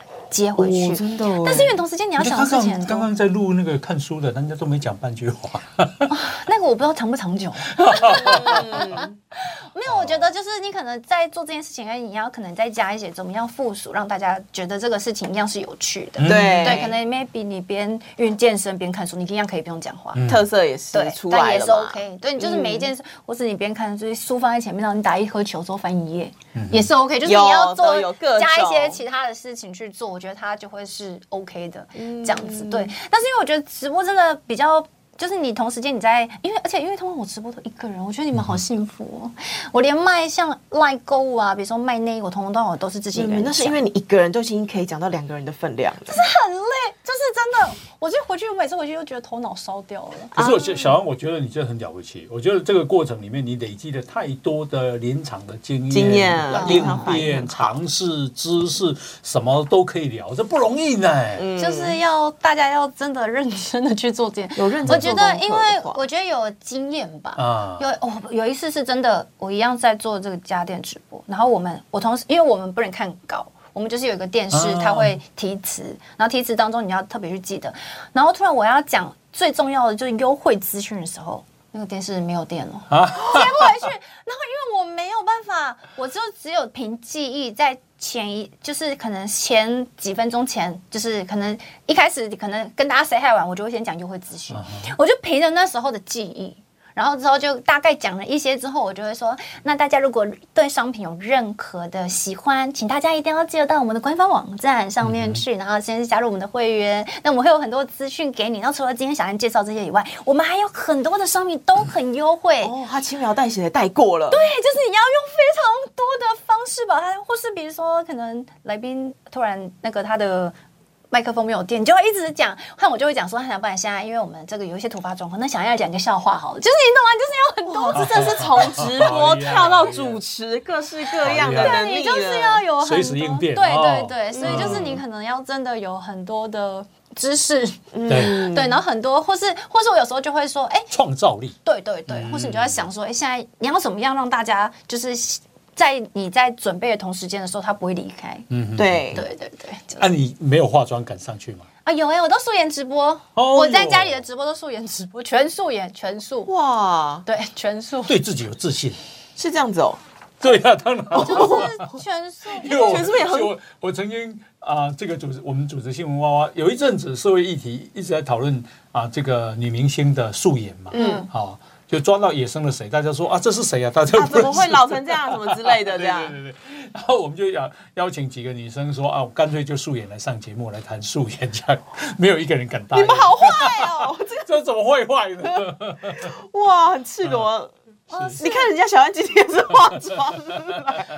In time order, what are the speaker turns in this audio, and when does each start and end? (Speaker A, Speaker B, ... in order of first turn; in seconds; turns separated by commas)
Speaker A: 0.3-3.1, Speaker B: 0.6-1.8, Speaker C: 2.2-6.1, Speaker A: 6.1-20.3, Speaker C: 7.8-8.6, Speaker B: 8.1-9.1, Speaker C: 9.9-10.3, Speaker C: 16.1-16.9, Speaker B: 16.2-16.9, Speaker C: 20.1-20.4, Speaker B: 20.3-22.9, Speaker A: 20.9-43.8, Speaker C: 26.5-26.9, Speaker B: 27.2-29.0, Speaker B: 32.0-32.9, Speaker B: 43.1-46.2, Speaker A: 46.1-50.4, Speaker C: 50.3-61.4, Speaker B: 55.9-57.7, Speaker A: 56.5-57.4, Speaker B: 61.4-62.0, Speaker A: 61.6-112.7, Speaker B: 64.6-66.0, Speaker C: 67.3-67.9, Speaker C: 74.5-75.1, Speaker C: 82.9-83.8, Speaker C: 94.5-94.8, Speaker C: 105.0-105.4, Speaker B: 112.6-114.4, Speaker A: 114.3-120.5, Speaker A: 121.1-128.3, Speaker B: 127.7-132.6, Speaker C: 127.9-130.2, Speaker C: 131.2-131.8, Speaker A: 131.6-140.9, Speaker C: 132.8-135.0, Speaker B: 134.3-135.0, Speaker B: 137.9-138.8, Speaker C: 138.1-138.3, Speaker C: 140.9-141.6, Speaker A: 141.6-148.5, Speaker C: 142.1-142.8, Speaker C: 148.5-149.2, Speaker B: 148.8-149.2, Speaker A: 149.1-150.1, Speaker C: 150.0-151.7, Speaker A: 151.8-156.5, Speaker C: 153.3-154.2, Speaker B: 156.5-157.2, Speaker A: 157.2-158.1, Speaker C: 158.1-159.0, Speaker B: 159.3-160.0, Speaker C: 160.4-161.9, Speaker A: 161.2-163.1, Speaker B: 161.2-161.7, Speaker C: 162.6-186.3, Speaker B: 162.7-163.5, Speaker B: 170.9-171.2, Speaker A: 170.9-171.3, Speaker B: 174.1-176.4, Speaker B: 182.9-184.5, Speaker B: 185.4-187.7, Speaker C: 188.1-188.4, Speaker A: 188.1-188.7, Speaker B: 188.4-191.1